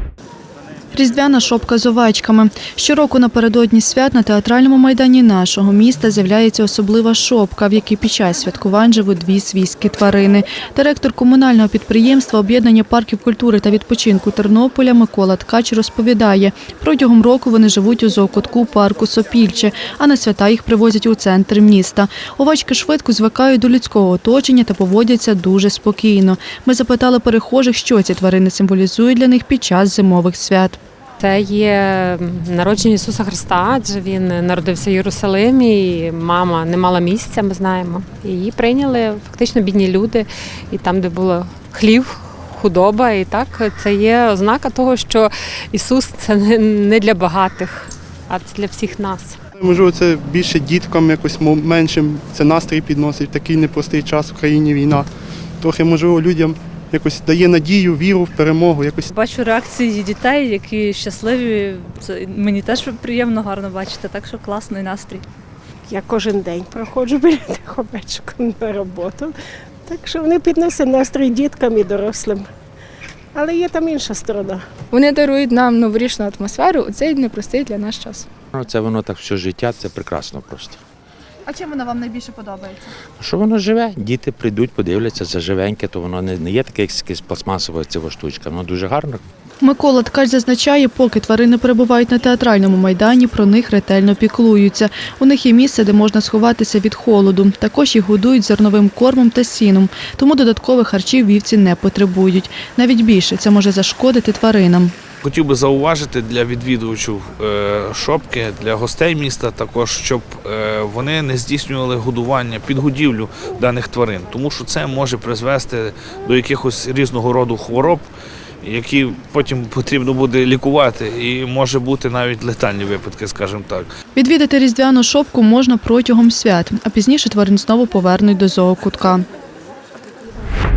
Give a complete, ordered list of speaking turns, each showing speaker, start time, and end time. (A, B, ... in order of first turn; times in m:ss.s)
0:00.9-0:30.8 A
0:31.2-0:49.4 B
0:49.6-0:55.0 C
0:55.6-0:59.1 C
0:59.1-1:05.2 D
1:05.9-1:09.3 E
1:09.9-1:12.5 E
1:13.4-1:14.6 E
1:14.9-1:18.2 F
1:18.5-1:20.8 G
1:23.2-1:29.2 G
1:29.6-1:44.9 A
1:45.2-1:58.0 H
1:58.6-2:03.8 H
2:04.2-2:09.2 A